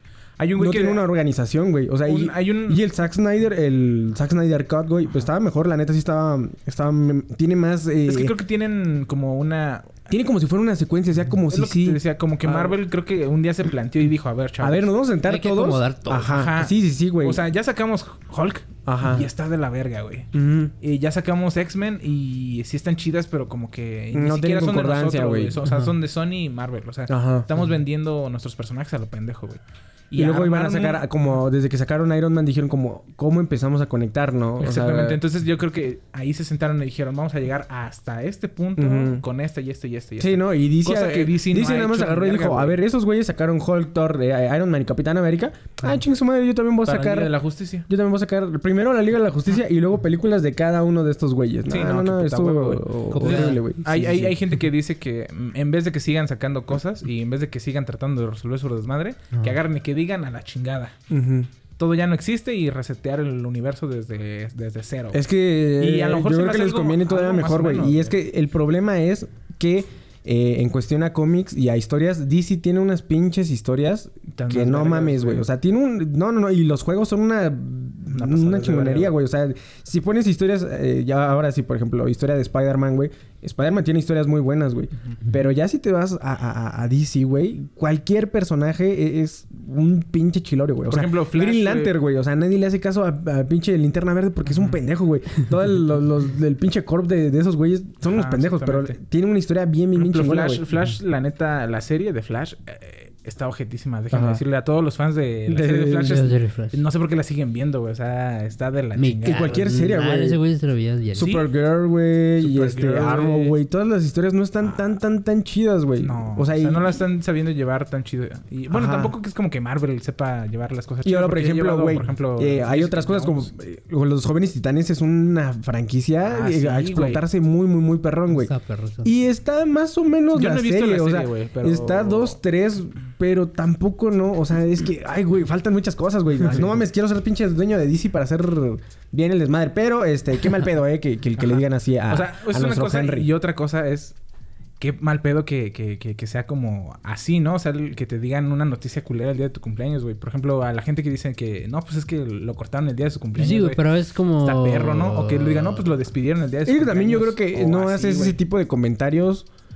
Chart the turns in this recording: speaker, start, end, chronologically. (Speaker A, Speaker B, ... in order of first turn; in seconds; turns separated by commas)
Speaker A: 0.4-1.1, Speaker B: 0.6-8.3, Speaker A: 2.0-2.8, Speaker A: 8.1-10.0, Speaker B: 10.1-12.8, Speaker A: 11.5-14.9, Speaker B: 14.6-17.4, Speaker C: 15.2-16.4, Speaker A: 16.2-20.3, Speaker B: 18.9-19.3, Speaker B: 20.3-20.7, Speaker A: 20.8-29.6, Speaker B: 24.1-25.6, Speaker B: 27.1-27.5, Speaker A: 30.1-31.1, Speaker B: 30.1-35.2, Speaker A: 34.6-42.8, Speaker B: 38.8-39.2, Speaker B: 40.2-47.3, Speaker A: 46.8-47.9, Speaker B: 47.9-54.4, Speaker A: 51.7-61.0, Speaker C: 53.1-53.6, Speaker B: 61.1-61.5, Speaker A: 61.8-65.2, Speaker B: 65.1-100.6, Speaker A: 65.8-68.1, Speaker A: 74.3-75.5, Speaker A: 78.1-79.1, Speaker A: 90.9-91.9, Speaker A: 94.4-94.8, Speaker A: 98.0-99.0, Speaker A: 99.9-109.6, Speaker B: 104.1-104.4, Speaker B: 105.5-106.2, Speaker C: 105.9-106.8, Speaker C: 109.0-111.3, Speaker B: 109.2-110.4, Speaker B: 111.1-117.0, Speaker A: 111.2-111.5, Speaker A: 112.4-113.5, Speaker A: 116.0-123.5, Speaker B: 118.7-119.1, Speaker B: 121.0-128.5, Speaker A: 126.2-127.2, Speaker C: 128.3-129.1, Speaker B: 129.0-143.3, Speaker A: 130.3-132.4, Speaker A: 136.4-136.8, Speaker A: 141.4-144.1, Speaker A: 144.8-153.8, Speaker C: 153.4-155.8, Speaker A: 154.4-158.4, Speaker B: 156.7-159.4